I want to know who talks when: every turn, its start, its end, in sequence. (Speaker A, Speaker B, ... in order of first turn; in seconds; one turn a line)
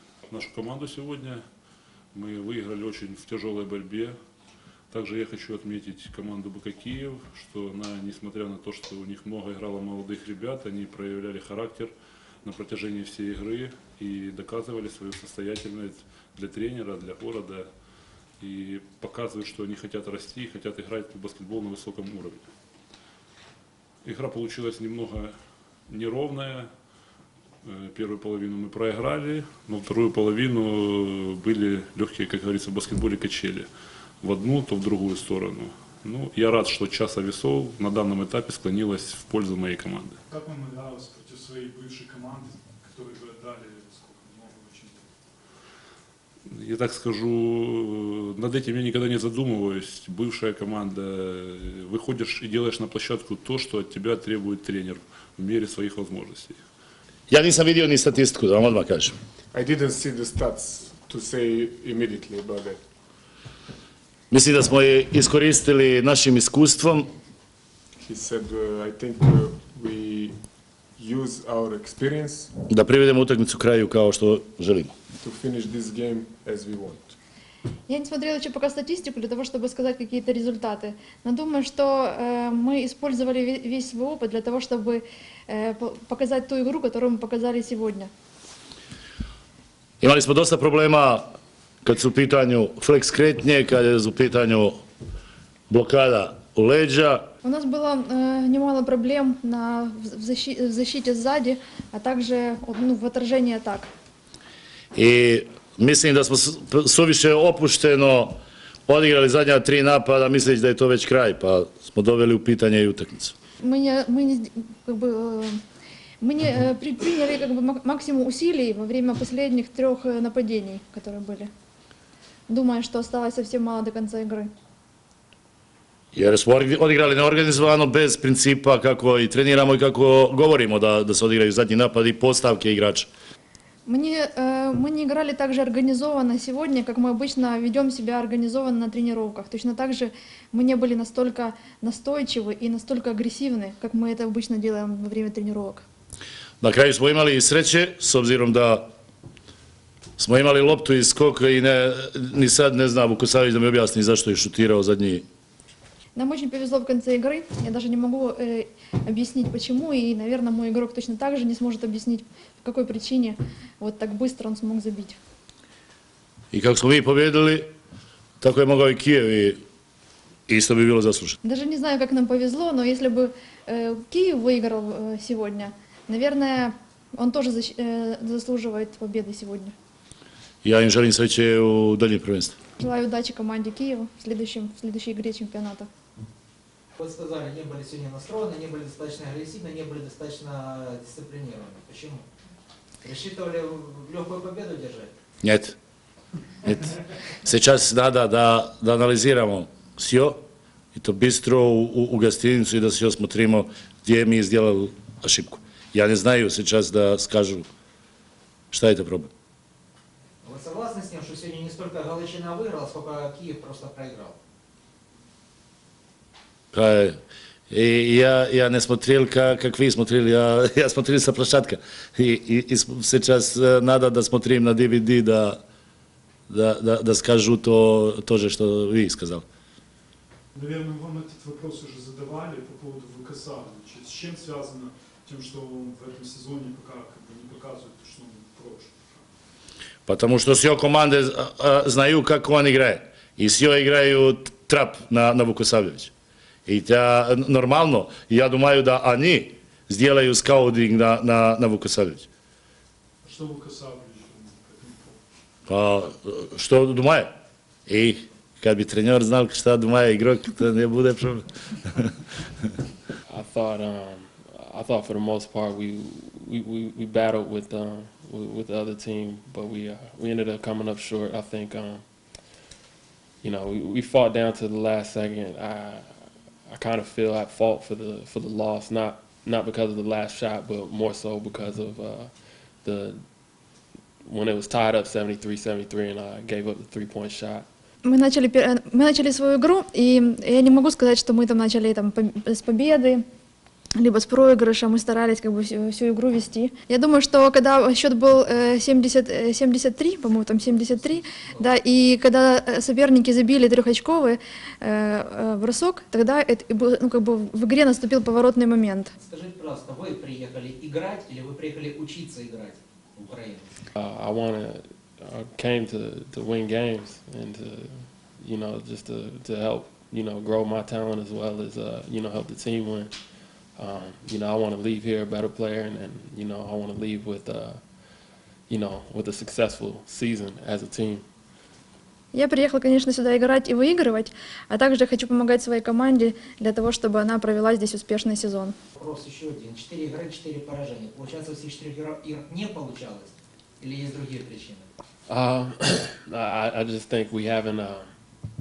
Speaker A: 0.3-1.4
Speaker A: 2.1-4.2
Speaker A: 4.9-17.7
Speaker A: 18.4-22.5
Speaker A: 24.0-25.4
Speaker A: 25.9-26.7
Speaker A: 27.6-33.7
Speaker A: 34.2-40.2
Speaker B: 40.3-45.1
Speaker A: 46.5-56.6
Speaker C: 57.3-59.1
Speaker D: 59.5-62.8
Speaker C: 64.3-67.1
Speaker D: 68.0-70.4
Speaker D: 71.0-72.5
Speaker C: 72.7-74.9
Speaker D: 75.2-77.2
Speaker E: 77.9-88.1
Speaker C: 90.0-91.3
Speaker C: 91.8-94.8
Speaker C: 95.7-97.3
Speaker E: 97.4-103.9
Speaker C: 105.0-113.3
Speaker E: 113.6-115.6
Speaker E: 116.2-121.5
Speaker E: 122.5-124.5
Speaker C: 126.1-133.1
Speaker E: 133.9-145.8
Speaker C: 146.6-148.9
Speaker C: 150.2-155.2
Speaker E: 156.2-165.2
Speaker C: 166.5-167.7
Speaker C: 168.4-169.6
Speaker C: 170.5-171.4
Speaker E: 171.4-179.7
Speaker C: 180.6-182.6
Speaker E: 182.8-185.9
Speaker F: 187.0-192.2
Speaker F: 193.0-195.1
Speaker C: 195.4-195.8
Speaker C: 196.6-200.4
Speaker C: 200.9-207.7
Speaker C: 208.7-209.3
Speaker F: 210.4-214.4
Speaker C: 216.7-217.2
Speaker C: 217.7-225.6
Speaker C: 226.5-229.4
Speaker B: 230.5-239.3
Speaker C: 240.1-246.1
Speaker C: 246.7-252.3
Speaker B: 253.2-255.2
Speaker C: 255.7-257.3
Speaker C: 257.9-262.1
Speaker G: 263.3-272.4
Speaker G: 273.4-283.2
Speaker G: 284.2-287.7
Speaker E: 288.0-293.2
Speaker E: 294.0-309.1
Speaker F: 300.6-301.7
Speaker F: 309.2-313.7
Speaker G: 314.0-323.1
Speaker G: 323.8-327.8
Speaker G: 328.7-331.2
Speaker E: 332.3-338.7
Speaker F: 339.0-344.9
Speaker G: 345.3-348.1